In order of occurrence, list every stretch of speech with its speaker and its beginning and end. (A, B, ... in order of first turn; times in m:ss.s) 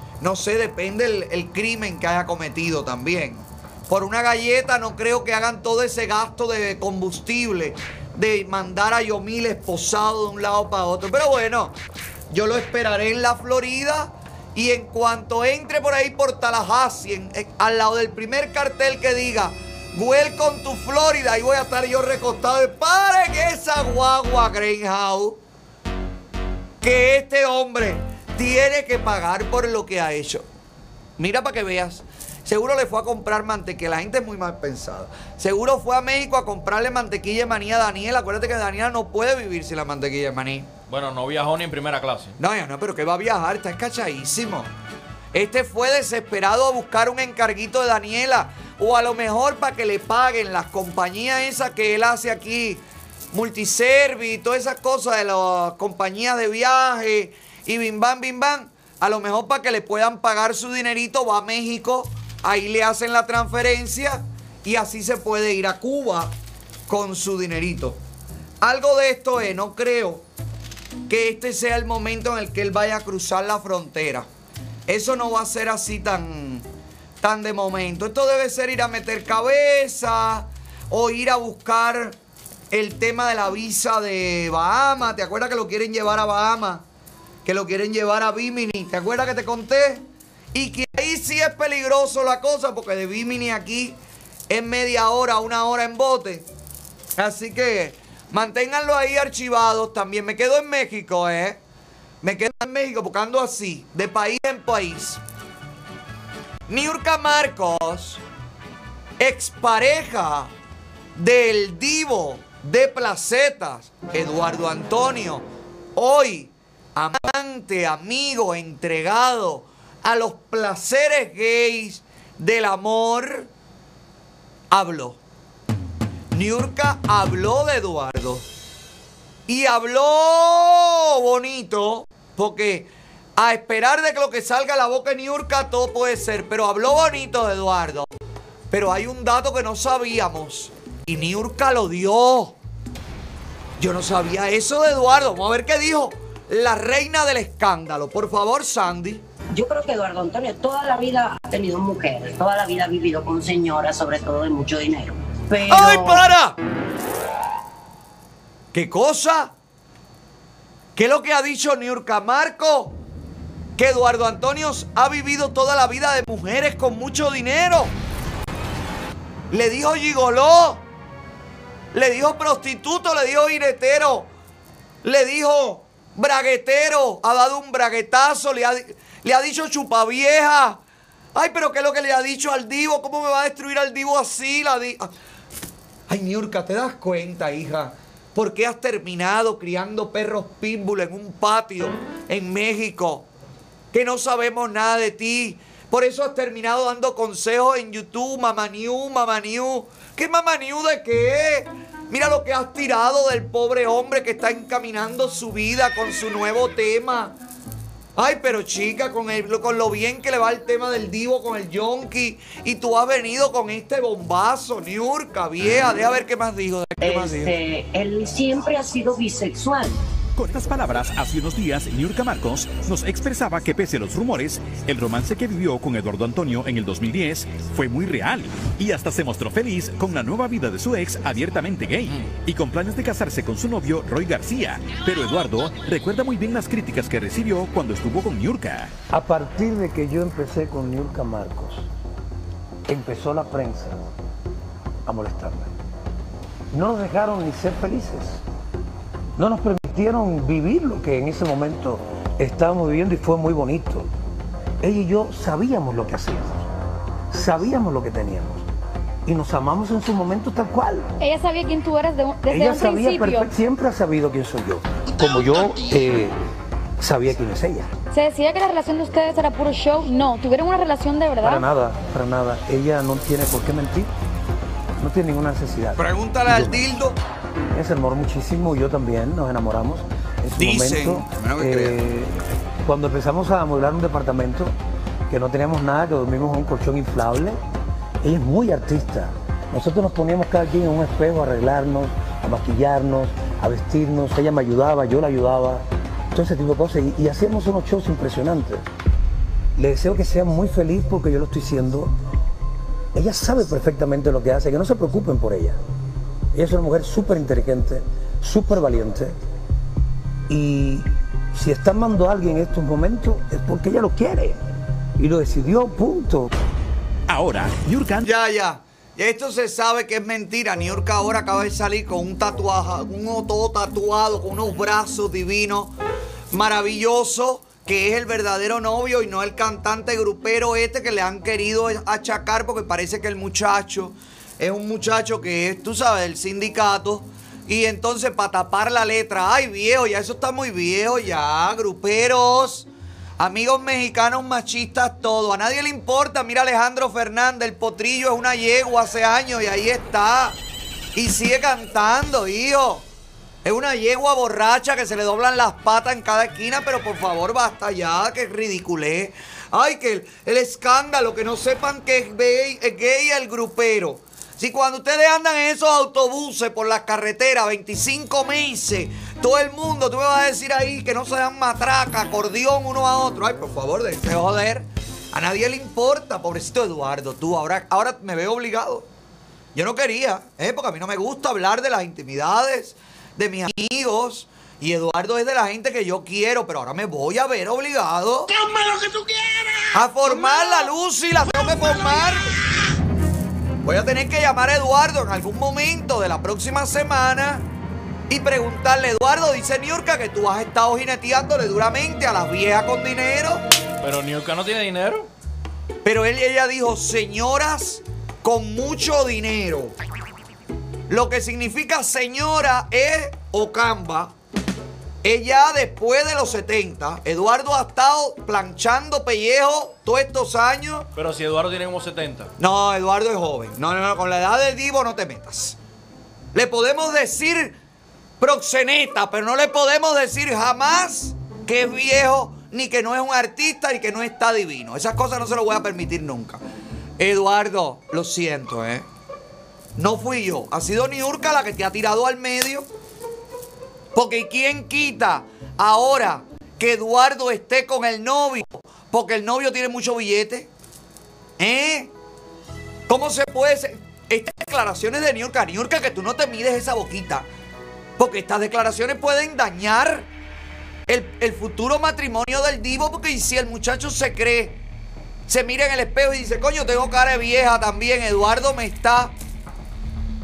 0:00.2-0:11.8 A
0:12.3-0:25.4 A
0:26.8-0:30.4 A
0:31.2-0:40.7 A
0:40.9-0:42.4 B
0:42.4-0:44.7 A
0:45.3-1:06.3 A
1:06.9-1:08.0 A
1:08.6-1:10.2 A
1:11.1-1:14.3 A
1:14.9-1:16.6 A
1:17.2-1:22.2 A
1:22.7-1:26.8 A
1:27.4-1:34.0 A
1:34.5-1:36.5 A
1:37.2-1:41.6 A
1:42.2-1:45.2 A
1:46.7-1:48.2 A
1:49.2-1:50.5 A
1:51.2-1:55.4 A
1:56.0-2:03.5 A
2:04.7-2:05.2 A
2:06.3-2:08.4 A
2:09.5-2:18.1 A
2:18.7-2:22.6 A
2:23.8-2:29.2 A
2:29.5-2:36.2 C
2:35.7-2:36.6 A
2:38.7-2:39.5 A
2:41.0-2:43.0 A
2:43.8-2:47.9 A
2:49.5-2:50.8 A
2:51.9-2:54.3 A
2:55.0-3:00.8 A
3:01.4-3:05.1 A
3:06.1-3:13.3 A
3:13.9-3:27.4 A
3:28.2-3:37.6 A
3:37.0-3:40.0 C
3:40.4-3:58.9 D
3:59.1-4:01.9 E
4:02.9-4:04.0 E
4:05.1-4:05.7 E
4:06.7-4:08.4 E
4:09.4-4:14.1 E
4:14.8-4:16.6 E
4:17.3-4:18.6 E
4:19.3-4:21.1 E
4:21.2-4:23.5 F
4:22.5-4:26.4 E
4:27.0-4:27.9 E
4:28.1-4:31.7 F
4:31.4-4:34.1 E
4:35.0-4:36.8 E
4:36.0-4:37.2 A
4:37.7-4:44.7 E
4:40.6-4:42.0 A
4:45.3-4:47.6 E
4:48.2-4:58.9 E
4:59.8-5:02.1 E
5:03.2-5:05.8 E
5:06.6-5:09.4 E
5:10.5-5:14.6 E
5:15.2-5:16.5 E
5:17.3-5:18.2 D
5:18.2-5:26.0 A
5:26.5-5:42.9 A
5:43.4-5:50.6 A
5:51.2-5:53.0 A
5:53.6-6:19.1 A
6:19.8-6:28.5 A
6:28.5-6:30.9 G
6:29.9-6:32.6 A
6:31.6-6:32.4 G
6:33.8-6:37.6 A
6:38.3-6:43.6 A
6:44.0-6:45.3 B
6:46.0-6:50.0 A
6:51.1-6:54.3 A
6:55.2-7:01.1 A
7:01.2-7:02.5 B
7:02.6-7:05.8 A
7:06.5-7:07.8 A
7:08.4-7:16.6 A
7:17.2-7:19.1 A
7:20.0-7:22.9 A
7:24.2-7:30.7 A
7:31.6-7:32.1 A
7:33.1-7:37.5 A
7:38.2-7:40.3 A
7:41.1-7:44.8 A
7:45.5-7:49.3 A